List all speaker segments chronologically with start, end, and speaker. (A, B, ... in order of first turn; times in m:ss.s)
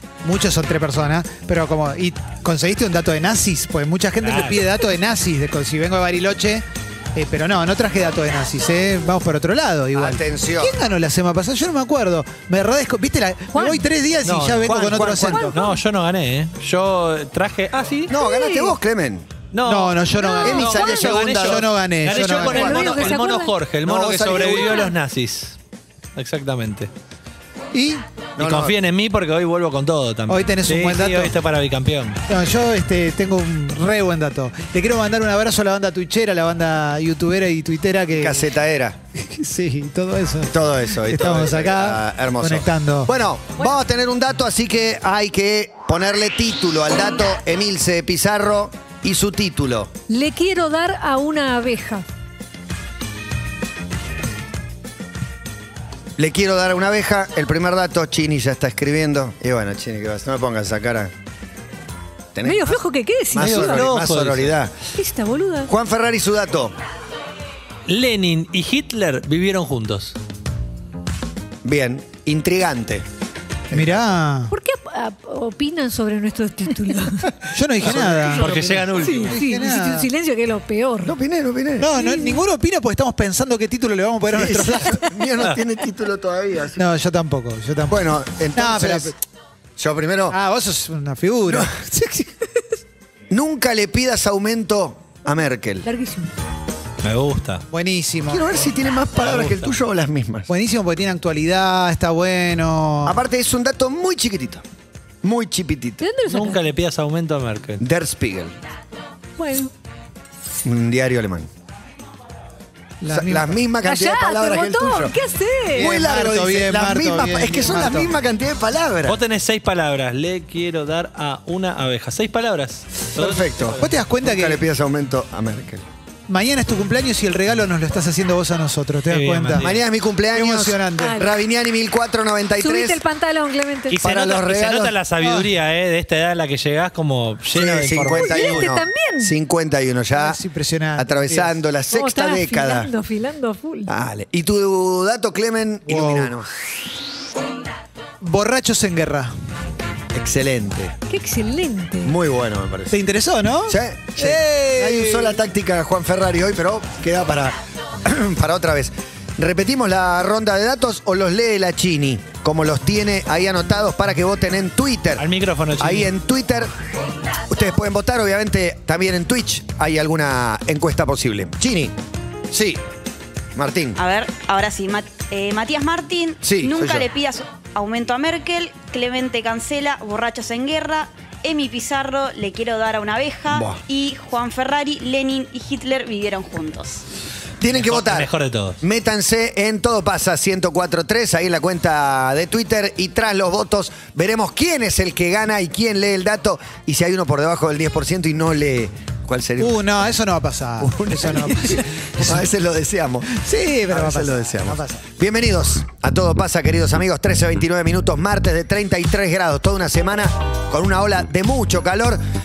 0:00.2-0:15.6 A
0:04.2-0:04.6 B
0:09.9-0:10.8 C
0:13.5-0:13.8 D
0:14.2-0:15.5 C
0:15.1-0:15.8 D
0:15.6-0:18.1 B
0:18.1-0:19.3 C
0:18.1-0:18.8 D
0:19.5-0:25.6 B
0:19.6-0:20.7 A
0:20.1-0:21.2 D
0:20.4-0:21.7 C
0:21.3-0:23.0 A
0:22.4-0:23.5 D
0:22.6-0:23.2 C
0:23.8-0:24.9 C
0:24.3-0:24.9 D
0:26.2-0:26.9 B
0:27.7-0:28.0 A
0:28.4-0:28.8 C
0:28.4-0:32.2 B
0:30.3-0:31.3 A
0:32.3-0:38.4 A
0:38.2-0:39.0 C
0:39.2-0:43.1 A
0:40.5-0:49.9 C
0:50.1-0:52.0 D
0:56.2-1:01.1 C
1:02.3-1:04.7 C
1:02.4-1:03.9 D
1:03.4-1:04.5 B
1:04.9-1:05.7 D
1:05.7-1:06.7 C
1:07.9-1:10.2 B
1:11.6-1:13.0 C
1:13.7-1:14.0 C
1:13.7-1:14.5 A
1:14.5-1:17.3 D
1:17.5-1:20.1 A
1:17.8-1:18.8 C
1:17.8-1:19.4 B
1:19.0-1:21.1 D
1:21.0-1:22.0 C
1:21.8-1:25.1 A
1:22.0-1:22.4 D
1:24.3-1:26.8 C
1:26.8-1:28.0 A
1:27.9-1:29.1 C
1:28.5-1:29.1 A
1:29.8-1:30.4 C
1:30.3-1:32.2 A
1:31.5-1:31.8 C
1:33.3-1:35.8 C
1:35.8-1:36.3 D
1:37.0-1:37.6 B
1:37.7-1:38.5 A
1:38.3-1:40.5 C
1:39.2-1:39.7 B
1:40.5-1:43.2 A
1:43.0-1:44.6 C
1:45.2-1:46.0 C
1:46.0-1:46.6 D
1:46.2-1:47.8 B
1:47.8-1:48.5 C
1:49.4-1:49.7 D
1:50.6-1:51.5 C
1:53.0-1:53.6 A
1:53.1-1:55.1 C
1:53.8-1:55.9 D
1:55.7-1:58.2 A
1:55.7-1:59.2 C
1:59.1-2:03.9 B
2:03.1-2:05.8 C
2:03.8-2:04.6 A
2:06.3-2:09.7 A
2:09.0-2:09.8 B
2:09.6-2:13.0 C
2:10.3-2:11.2 A
2:11.0-2:11.3 D
2:12.6-2:13.9 D
2:13.9-2:18.6 B
2:13.9-2:15.0 C
2:15.2-2:15.5 A
2:17.5-2:20.4 C
2:18.1-2:19.3 D
2:20.1-2:21.6 A
2:21.0-2:22.9 C
2:21.9-2:23.9 D
2:23.9-2:26.5 C
2:25.8-2:26.3 A
2:28.2-2:29.3 A
2:30.1-2:30.9 C
2:31.1-2:32.2 D
2:32.0-2:33.0 C
2:32.9-2:35.4 A
2:33.6-2:45.2 C
2:45.2-2:46.1 B
2:45.8-2:46.7 C
2:47.5-2:52.0 C
2:52.5-2:52.8 C
2:53.5-2:54.0 C
2:54.0-3:07.0 E
2:56.4-2:57.1 C
3:03.5-3:03.8 C
3:07.6-3:08.3 C
3:07.7-3:08.8 B
3:08.8-3:19.9 C
3:19.6-3:22.4 A
3:20.8-3:32.2 C
3:23.3-3:25.0 A